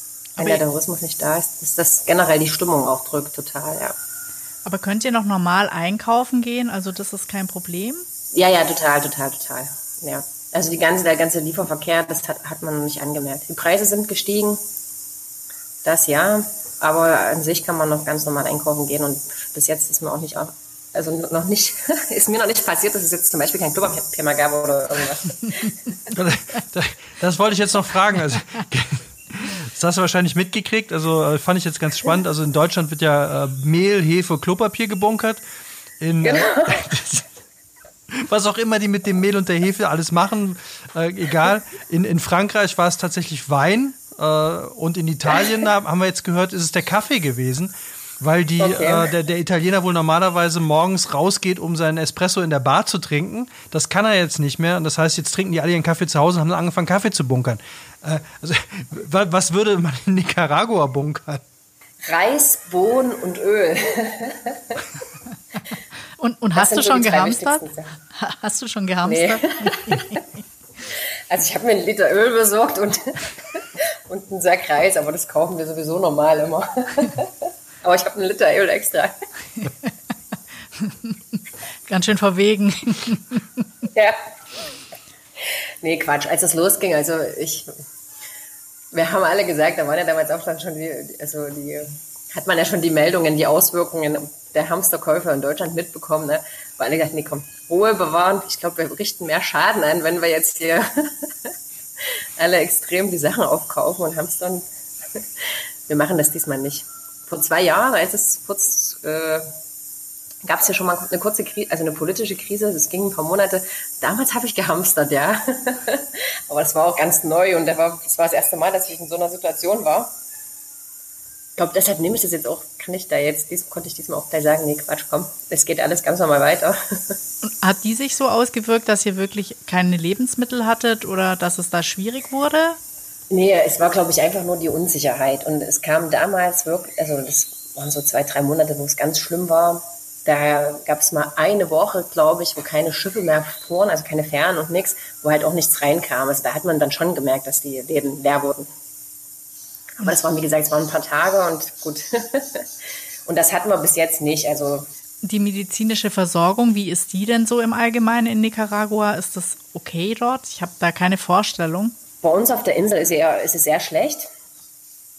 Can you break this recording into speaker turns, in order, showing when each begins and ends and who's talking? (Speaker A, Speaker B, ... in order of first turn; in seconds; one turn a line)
Speaker A: 0.4-0.6
Speaker B: 0.4-3.9
Speaker A: 4.6-8.1
Speaker B: 8.3-14.6
Speaker B: 15.8-25.9
Speaker C: 26.1-35.4
Speaker C: 36.0-37.2
Speaker B: 36.2-36.9
Speaker C: 38.1-61.4
Speaker B: 48.6-49.1
Speaker B: 62.0-64.8
Speaker A: 66.2-70.2
Speaker B: 66.5-67.9
Speaker B: 69.0-70.1
Speaker B: 71.3-77.3
Speaker B: 77.8-79.1
Speaker A: 80.8-81.1
Speaker A: 81.9-83.6
Speaker B: 85.8-87.7
Speaker B: 88.9-101.5
Speaker B: 102.4-104.6
Speaker B: 105.2-109.5
Speaker B: 110.4-120.1
Speaker B: 121.6-126.8
Speaker A: 127.4-132.8
Speaker B: 133.3-148.7
Speaker B: 150.0-152.6
Speaker B: 153.2-154.9
Speaker A: 155.2-161.9
Speaker B: 162.2-164.3